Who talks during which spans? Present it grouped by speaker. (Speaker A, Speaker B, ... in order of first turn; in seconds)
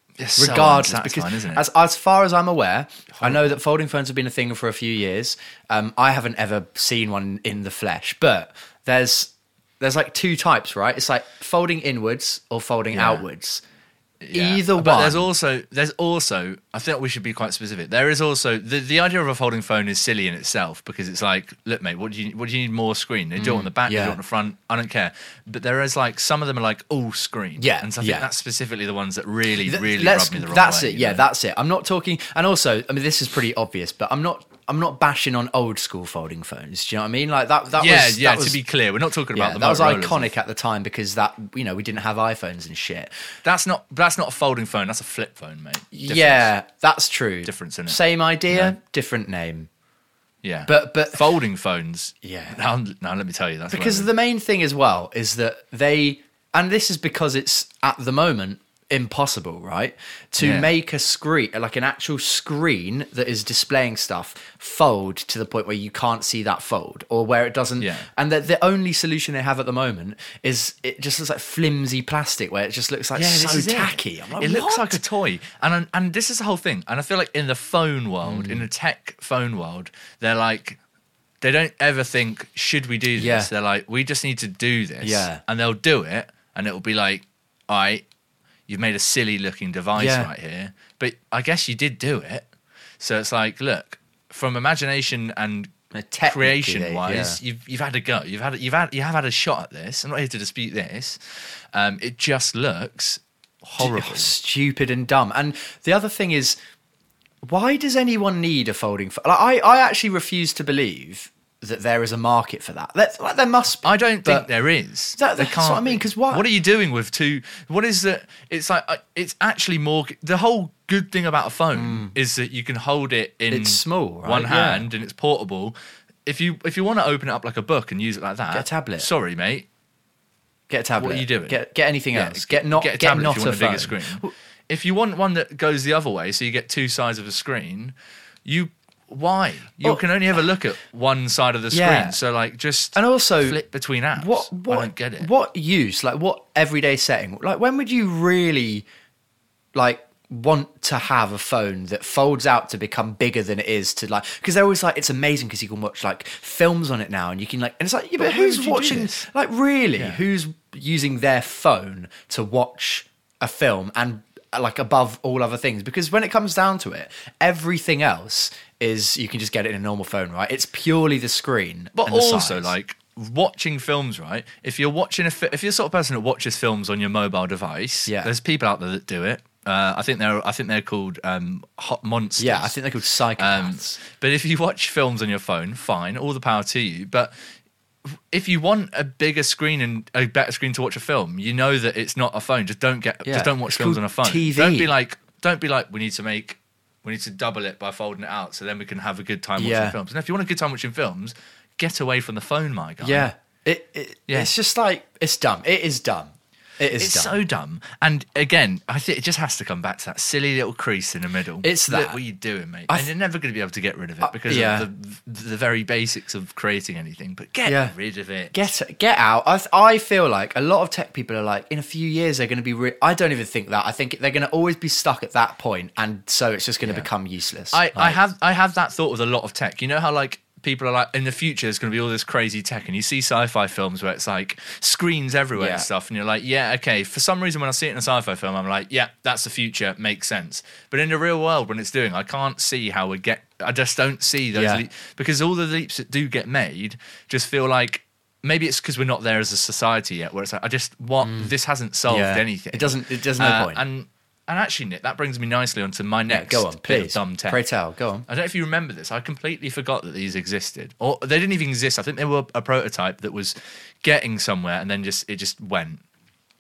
Speaker A: 0.2-1.6, 3.1-3.5, 12.9-13.3, 14.2-31.2, 37.8-40.3, 43.5-46.5, 47.5-48.8, 50.4-54.1, 60.4-60.7, 67.8-68.1, 73.2-80.8, 81.4-88.0, 88.7-92.5, 93.0-95.7, 96.3-104.3, 113.8-129.7, 131.0-145.3, 158.2-159.3, 172.0-182.8, 183.4-187.3, 188.1-203.3, 207.0-218.6, 227.7-257.6, 258.3-266.0
Speaker B: 0.4-13.6, 14.3-15.3, 23.4-24.2, 27.6-28.3, 29.7-38.6, 39.3-43.1, 45.9-49.7, 50.7-51.3, 52.2-52.6, 53.7-75.0, 78.2-78.7, 83.2-83.5, 85.0-85.4, 90.0-90.3, 95.9-97.4, 103.8-106.6, 107.4-114.5, 115.2-116.5, 121.7-122.2, 123.5-124.9, 128.5-129.1, 130.7-134.3, 141.7-142.2, 142.9-143.6, 144.2-148.8, 149.8-172.7, 178.1-178.3, 182.4-183.9, 193.2-194.9, 199.6-200.0, 203.0-207.4, 211.6-212.2, 214.2-214.9, 217.7-217.9, 218.5-228.2, 235.6-235.9, 244.5-244.8, 251.2-251.5, 252.1-253.8, 256.3-258.3